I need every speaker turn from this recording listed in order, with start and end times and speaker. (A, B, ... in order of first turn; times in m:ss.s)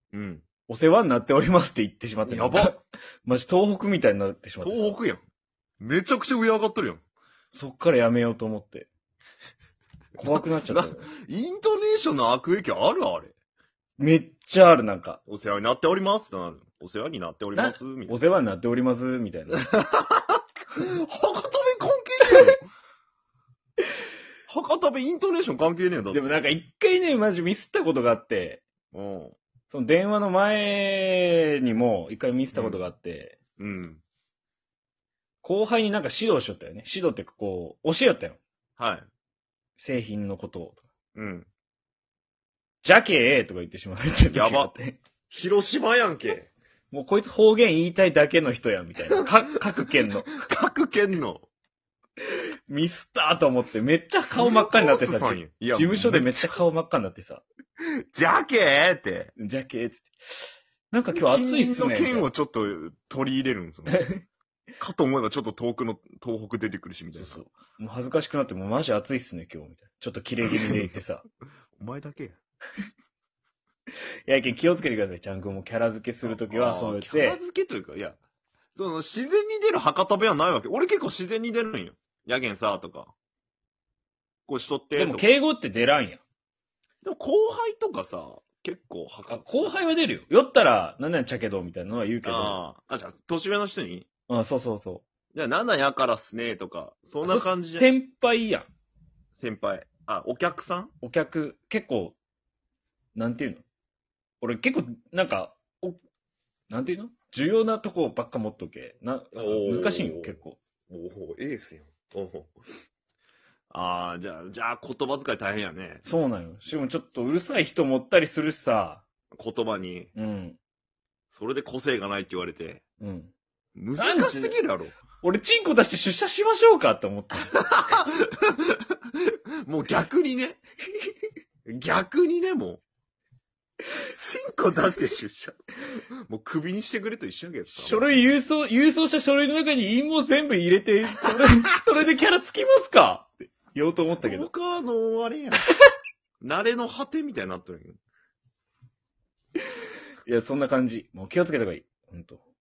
0:00.1-0:00.4 A
0:00.7-0:05.0 B
0:02.2-0:02.8 A
0:04.6-0:05.2 A
0:05.8-0:07.0 A
0:07.5-0:08.9 B
0:10.2-0:11.1 B
0:10.2-0:13.3 A
0:14.0-0:15.2 B
0:15.3-0:18.2 A
0:17.5-0:19.6 B
0:19.5-0:22.6 A
0:24.5-0:26.4 A
0:26.1-0:28.6 B
0:28.9-0:29.4 A
0:29.7-0:33.4 B
0:32.5-0:32.8 A
0:33.6-0:34.0 A
0:35.4-0:38.4 B
0:38.8-0:39.1 A
0:39.8-0:40.8 B
0:41.1-0:41.5 A
0:42.8-0:45.0 B
0:44.3-0:44.7 A
0:45.3-0:46.5 A
0:46.9-0:50.4 B
0:50.3-0:51.4 A
0:52.2-0:57.4 B
0:54.3-0:56.6 A
0:58.1-0:59.3 A
0:59.4-1:02.3 B
1:01.1-1:04.1 A
1:03.9-1:04.2 B
1:04.8-1:07.4 A
1:07.2-1:11.2 B
1:10.4-1:11.0 A
1:11.8-1:12.4 A
1:14.3-1:17.4 B
1:16.2-1:18.2 A
1:18.7-1:23.1 A
1:24.5-1:25.3 A
1:25.0-1:26.2 B
1:27.0-1:29.7 A
1:29.3-1:32.6 B
1:32.2-1:34.1 A
1:34.3-1:35.0 B
1:35.3-1:37.9 A
1:37.2-1:38.7 B
1:39.3-1:40.9 A
1:41.0-1:42.2 B
1:43.1-1:43.6 B
1:44.4-1:46.0 B
1:46.7-1:50.6 B
1:49.3-1:52.6 A
1:53.7-1:56.1 A
1:56.0-1:59.0 B
1:59.3-2:00.1 A
2:00.1-2:00.6 B
2:01.3-2:02.8 A
2:03.0-2:03.3 B
2:03.8-2:05.0 A
2:04.0-2:04.6 B
2:05.2-2:07.5 B
2:07.5-2:10.6 A
2:11.7-2:12.8 A
2:14.1-2:15.6 A
2:16.3-2:18.0 A
2:17.7-2:24.5 B
2:24.0-2:25.7 A
2:26.4-2:28.0 A
2:30.2-2:32.4 B